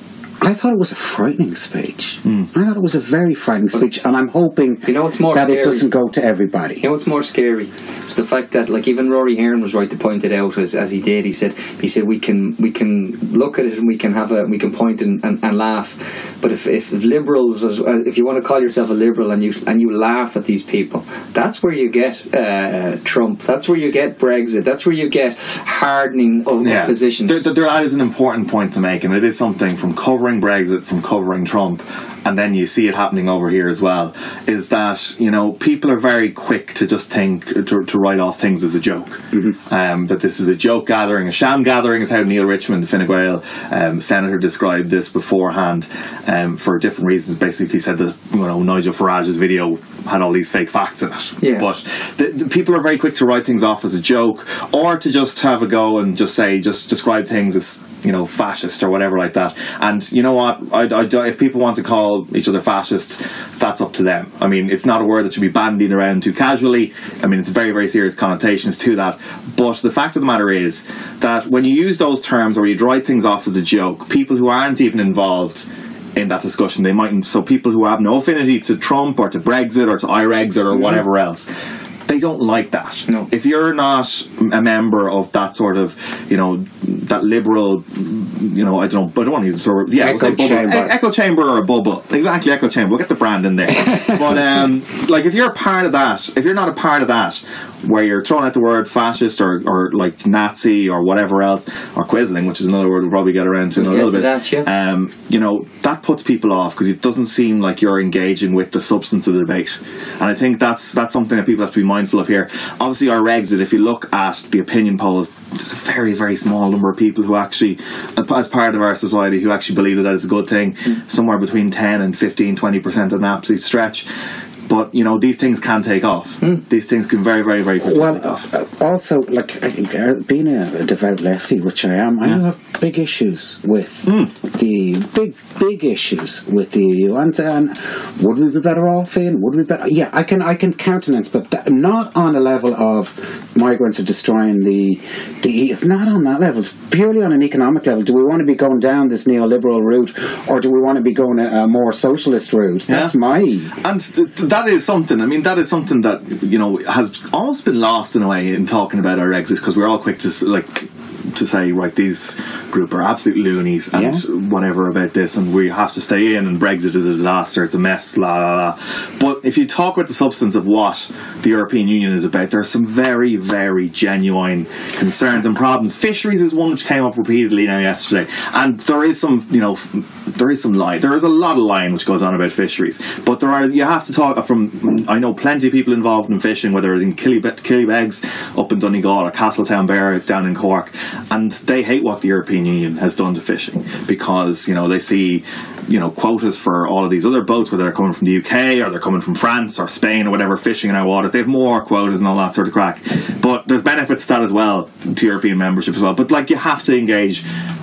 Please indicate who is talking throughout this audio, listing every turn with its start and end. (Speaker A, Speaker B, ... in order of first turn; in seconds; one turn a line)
Speaker A: 0.4-6.8
Speaker B: 4.9-5.9
Speaker B: 6.8-27.5
Speaker C: 26.6-81.5
Speaker B: 51.4-51.7
Speaker B: 80.7-81.0
Speaker C: 82.1-124.1
Speaker A: 90.0-91.0
Speaker B: 103.7-104.7
Speaker C: 124.7-128.5
Speaker A: 127.8-153.7
Speaker C: 152.9-153.2
Speaker C: 153.7-207.4
Speaker A: 163.9-164.2